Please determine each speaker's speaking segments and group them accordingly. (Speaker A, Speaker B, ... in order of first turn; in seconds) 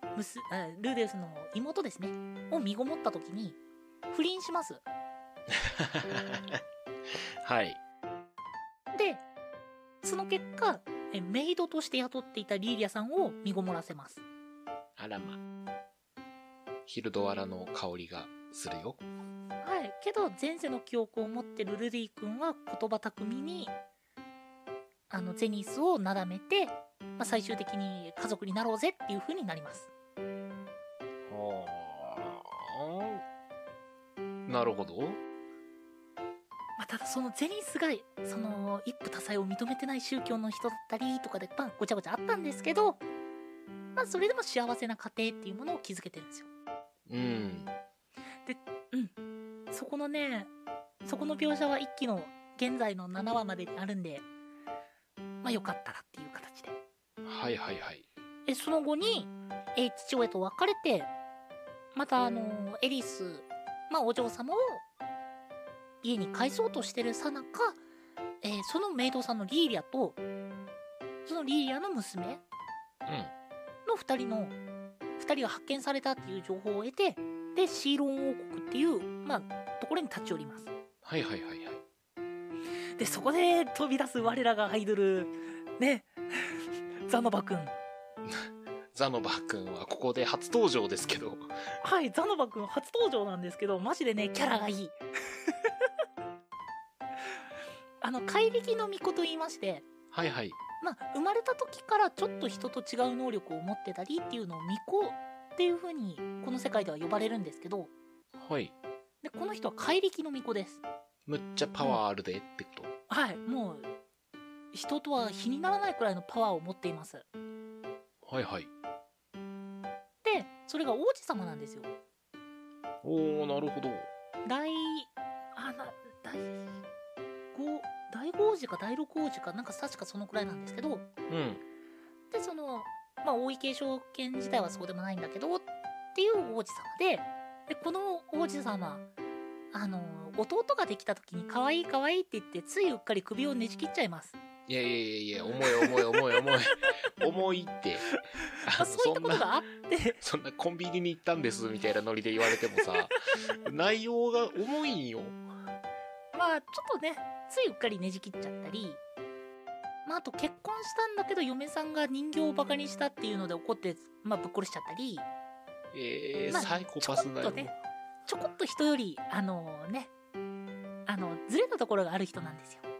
Speaker A: 0.1-3.6, 4.1-4.8, 8.9-9.2, 10.0-14.2, 19.6-23.7, 25.1-29.9, 36.8-43.0, 44.0-46.5, 48.5-49.1, 49.7-50.5, 51.0-54.2, 55.4-56.8, 58.5-61.1, 61.9-64.8, 66.0-67.8, 68.4-70.2, 71.2-72.4, 73.8-74.6, 75.2-80.7, 83.0-87.7, 91.8-95.0, 98.0-99.9, 100.8-107.9, 109.2-110.8, 113.1-113.9, 114.7-117.2, 120.2-121.9, 124.4-126.8, 127.5-131.1, 132.3-139.1, 139.7-144.4, 145.8-146.1, 148.8-150.2, 156.3-159.0, 160.0-165.3, 166.5-167.7, 168.2-170.1, 171.1-172.8
Speaker B: 5.5-7.8, 15.0-15.4, 16.9-19.0, 31.3-33.2, 34.5-35.2, 47.1-47.7, 57.2-58.0, 73.0-73.3, 81.0-81.8, 88.2-91.5, 100.1-100.6, 108.3-108.7, 111.2-112.9, 118.2-118.7, 123.0-124.1, 131.3-131.6, 144.7-149.5, 150.2-155.4, 165.9-167.7